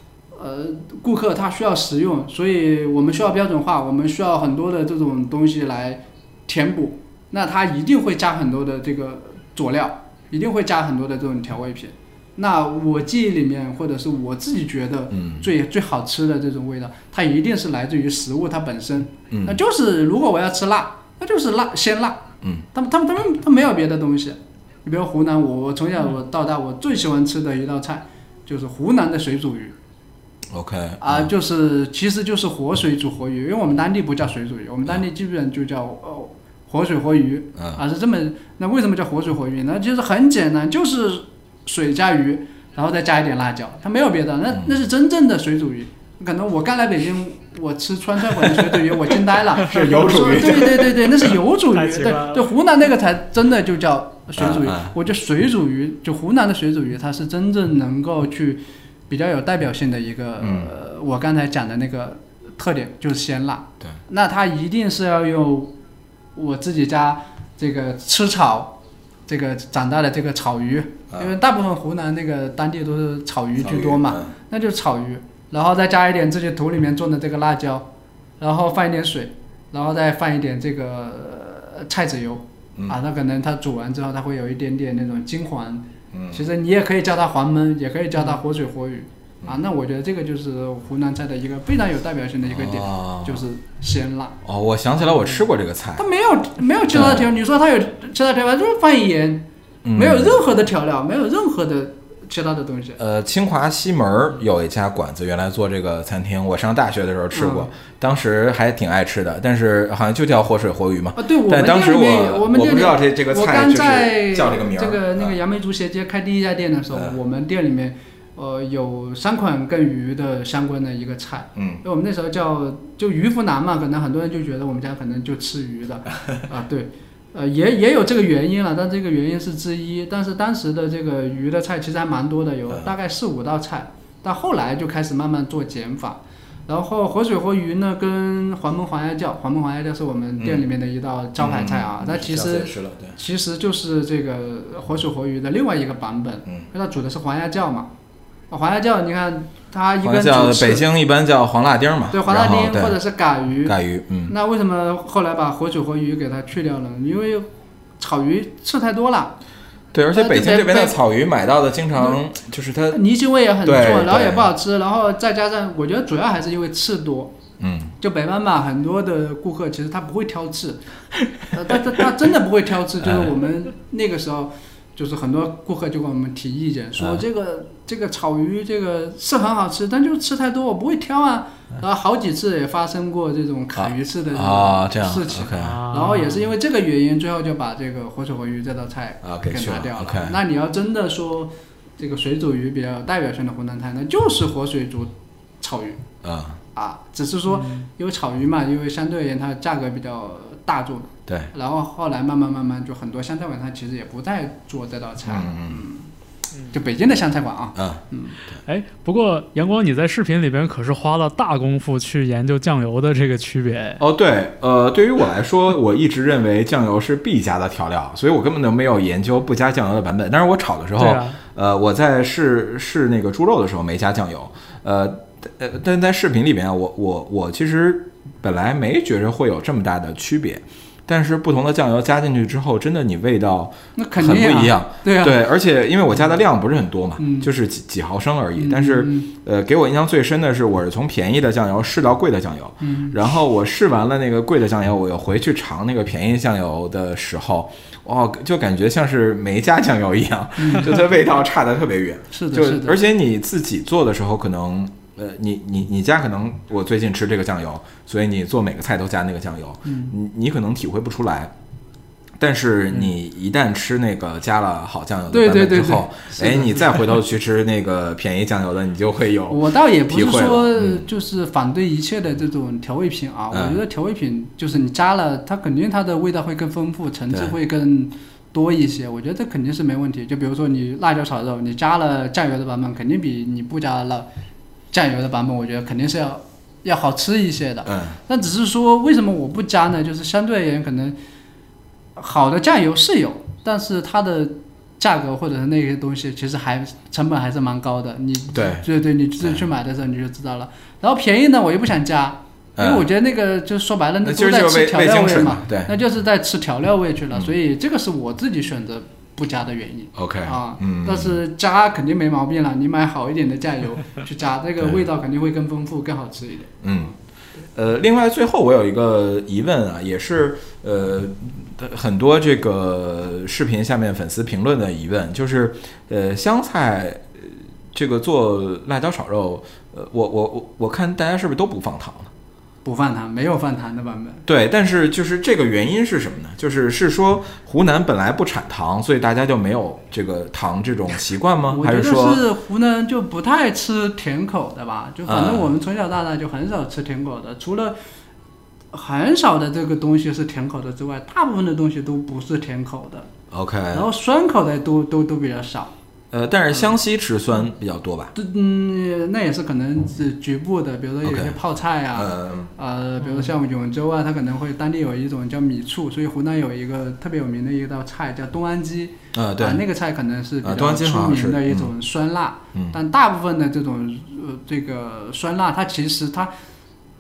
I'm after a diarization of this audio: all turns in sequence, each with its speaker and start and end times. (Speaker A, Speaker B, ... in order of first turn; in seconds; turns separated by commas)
Speaker A: 0.3-29.8, Speaker B: 15.1-15.5, Speaker B: 19.3-19.6, Speaker B: 30.5-31.3, Speaker A: 31.0-65.7, Speaker B: 48.4-49.0, Speaker B: 49.5-51.4, Speaker C: 51.8-52.5, Speaker B: 54.4-54.9, Speaker B: 60.4-60.7, Speaker A: 66.4-68.8, Speaker A: 69.3-77.9, Speaker B: 73.6-74.3, Speaker A: 78.4-94.4, Speaker B: 86.1-86.4, Speaker B: 92.5-93.4, Speaker B: 94.4-96.1, Speaker A: 96.0-103.0, Speaker B: 96.9-97.3, Speaker B: 99.8-100.4, Speaker B: 103.0-115.4, Speaker A: 107.3-107.7, Speaker A: 111.2-147.9, Speaker B: 121.6-121.8, Speaker B: 140.4-140.7, Speaker B: 141.4-143.2, Speaker A: 148.5-150.9, Speaker B: 150.0-153.0, Speaker A: 152.1-153.8, Speaker B: 153.7-154.3, Speaker A: 154.3-157.5, Speaker A: 158.0-159.4, Speaker B: 159.9-163.0, Speaker A: 160.1-161.0, Speaker A: 162.9-167.4, Speaker B: 163.6-164.5, Speaker B: 167.6-167.9, Speaker A: 168.0-170.8, Speaker A: 171.5-196.1, Speaker B: 173.0-173.3, Speaker B: 183.8-185.9, Speaker C: 185.6-186.5, Speaker B: 189.2-190.4, Speaker B: 196.2-196.6, Speaker A: 196.8-206.1, Speaker C: 197.5-197.9, Speaker B: 205.2-205.8, Speaker A: 206.7-208.4, Speaker B: 207.8-208.6, Speaker C: 208.7-214.0, Speaker B: 214.0-261.5, Speaker C: 221.0-221.4, Speaker A: 234.0-235.4, Speaker A: 237.2-237.5, Speaker A: 238.6-239.3, Speaker A: 242.8-243.2, Speaker A: 250.6-250.9, Speaker A: 252.3-253.0, Speaker A: 259.9-260.1, Speaker B: 262.4-271.1, Speaker A: 265.3-267.1, Speaker A: 269.5-284.3, Speaker B: 273.5-273.8, Speaker A: 284.9-291.2, Speaker B: 287.9-288.2, Speaker A: 292.2-316.8, Speaker B: 298.5-298.8, Speaker B: 302.8-303.1, Speaker B: 304.2-305.9, Speaker B: 310.1-311.4, Speaker B: 316.8-317.1, Speaker B: 317.8-332.3, Speaker A: 332.8-334.4, Speaker B: 334.5-342.4, Speaker A: 341.7-347.9, Speaker B: 345.3-345.7, Speaker A: 348.9-353.3, Speaker B: 353.5-354.1, Speaker A: 353.9-355.9, Speaker B: 356.3-358.3, Speaker A: 358.4-376.5, Speaker B: 361.2-361.6, Speaker B: 362.1-362.7, Speaker B: 369.3-369.8, Speaker B: 370.6-371.9